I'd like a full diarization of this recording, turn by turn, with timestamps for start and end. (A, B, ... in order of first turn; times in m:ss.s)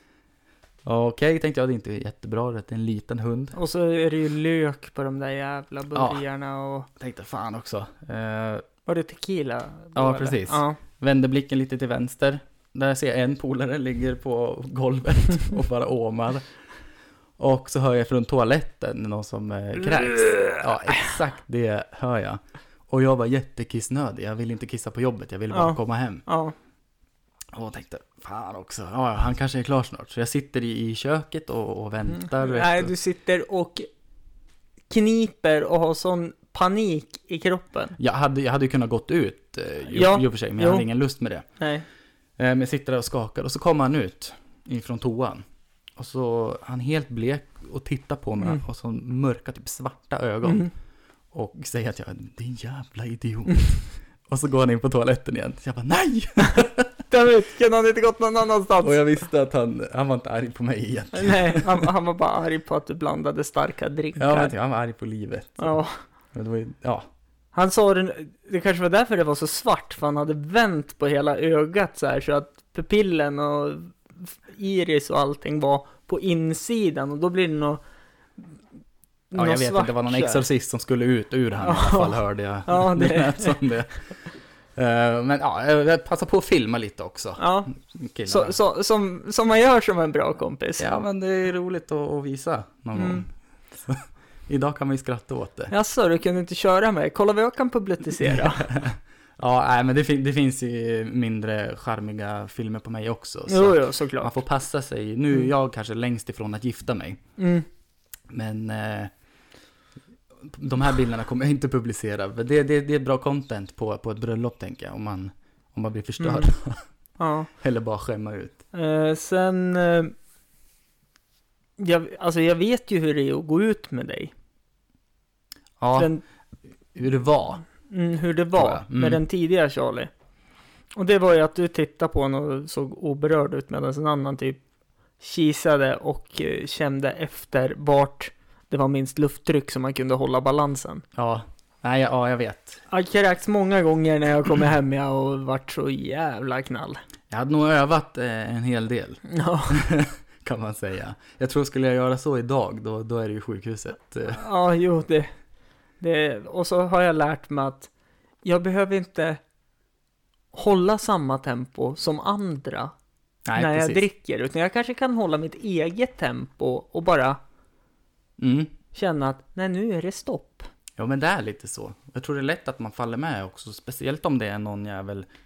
0:00.8-0:03.6 A
0:03.5-0:06.9 B
0:05.9-0:06.2 A
0:07.0-0:08.6 A
0:08.8-0:10.8 B
0:09.9-0:16.5 A
0:17.4-0:26.2 A
0:20.3-0:20.6 B
0:25.5-0:26.5 B
0:27.5-0:32.9 A
0:32.1-0:33.9 B
0:34.9-0:38.0 B
0:38.0-0:41.4 A
0:39.9-0:40.8 B
0:41.6-0:41.8 B
0:42.4-0:45.4 A
0:46.0-0:50.7 A
0:50.4-0:50.7 B
0:51.3-0:57.0 A
0:57.1-0:59.0 B
0:58.8-1:01.9 A
1:01.1-1:04.5 B
1:04.2-1:05.8 A
1:05.6-1:06.0 B
1:06.3-1:07.0 A
1:07.5-1:17.8 B
1:19.3-1:20.4 B
1:19.3-1:24.1 A
1:21.6-1:23.6 B
1:24.8-1:28.6 A
1:27.4-1:27.7 B
1:28.3-1:30.9 B
1:30.8-1:35.7 A
1:33.0-1:33.2 B
1:35.7-1:38.7 B
1:38.2-1:47.2 A
1:43.5-1:44.3 B
1:47.4-1:47.6 B
1:48.3-1:49.1 A
1:50.4-1:56.8 A
1:56.2-1:56.5 B
1:57.2-1:57.5 B
1:57.6-1:58.6 A
1:58.7-2:00.1 B
2:01.8-2:04.3 B
2:05.8-2:06.1 A
2:06.0-2:06.2 B
2:06.9-2:07.6 A
2:07.9-2:10.1 B
2:08.6-2:09.2 A
2:11.0-2:14.6 B
2:15.2-2:21.0 B
2:21.1-2:22.8 A
2:22.9-2:27.0 B
2:27.3-2:34.4 A
2:29.3-2:29.8 B
2:34.2-2:35.3 B
2:36.0-2:37.9 B
2:38.4-2:39.4 B
2:40.5-2:42.9 B
2:43.4-2:44.0 A
2:43.5-2:47.4 B
2:48.4-2:48.7 A
2:48.9-2:50.7 B
2:51.0-2:55.2 A